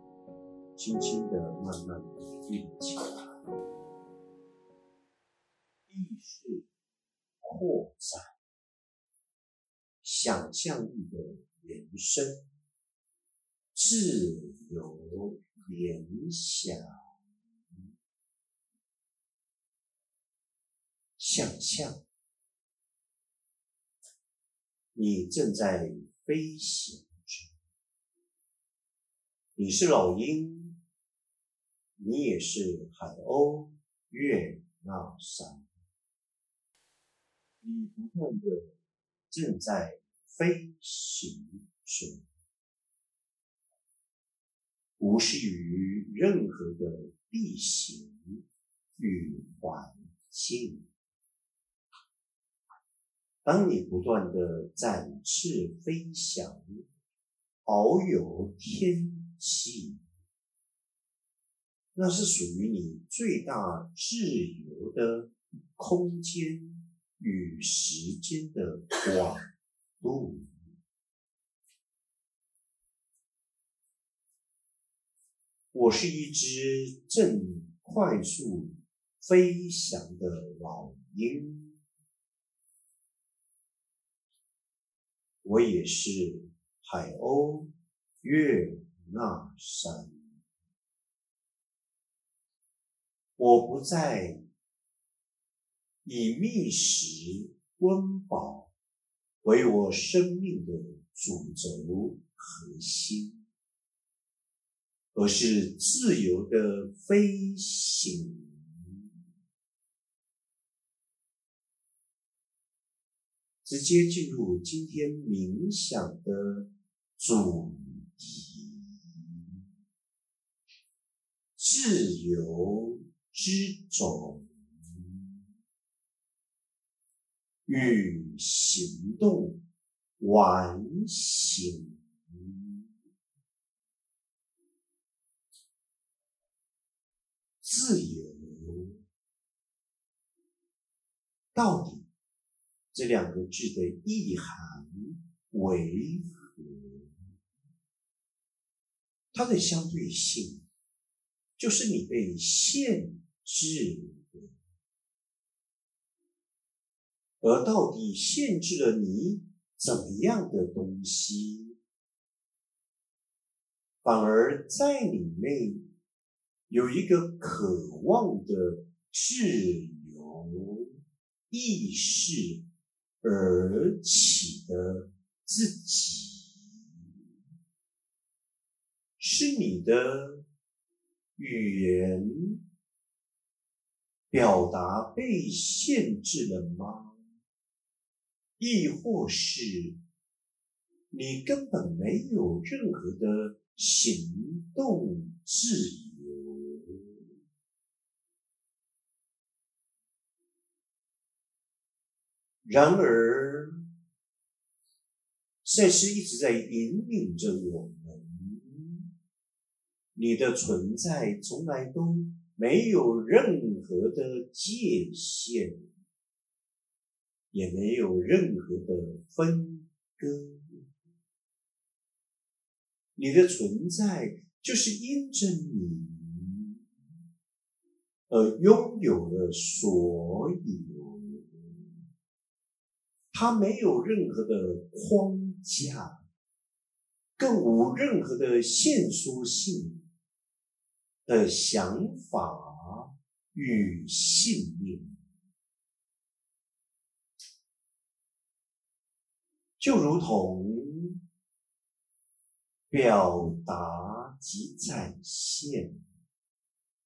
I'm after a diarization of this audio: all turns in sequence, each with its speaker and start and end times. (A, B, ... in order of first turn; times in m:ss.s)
0:00.8-0:03.4 A
0:05.9-0:06.6 A
0:07.4-0:08.4 A
0:10.0-0:12.5 A
0:13.7-0:17.0 A
0:21.2-0:22.0 A
0:24.9-0:27.5 A
0:29.6-0:30.8 A
0:32.0-0:35.7 A
0:37.6-0:38.7 A
0:39.3-0:42.2 A
0:45.0-0:48.4 A
0:49.0-0:50.9 A
0:53.4-0:56.6 A
0:57.6-1:00.0 A
1:01.9-1:09.5 A
1:10.0-1:10.5 A
1:15.7-1:21.8 A
1:25.4-1:27.7 A
1:28.2-1:30.3 A
1:33.4-1:34.4 A
1:36.0-1:38.7 A
1:39.4-1:43.4 A
1:45.1-1:49.0 A
1:53.6-1:59.6 A
2:01.6-2:05.2 A
2:07.6-2:09.6 A
2:10.2-2:12.8 A
2:17.6-2:19.0 A
2:21.5-2:22.1 A
2:22.9-2:27.2 A
2:29.3-2:30.6 A
2:31.6-2:34.6 A
2:37.4-2:41.8 A
2:44.0-2:45.8 A
2:46.7-2:50.9 A
2:51.5-2:52.6 A
2:53.2-2:56.8 A
2:59.2-3:00.4 A
3:01.4-3:02.6 A
3:04.3-3:07.2 A
3:08.6-3:10.0 A
3:11.1-3:17.2 A
3:22.6-3:23.8 A
3:25.6-3:29.1 A
3:30.1-3:35.8 A
3:37.5-3:40.8 A
3:43.2-3:46.8 A
3:48.3-3:51.9 A
3:53.3-3:56.2 A
3:57.4-4:00.1 A
4:01.2-4:05.1 A
4:09.8-4:11.2 A
4:12.9-4:16.0 A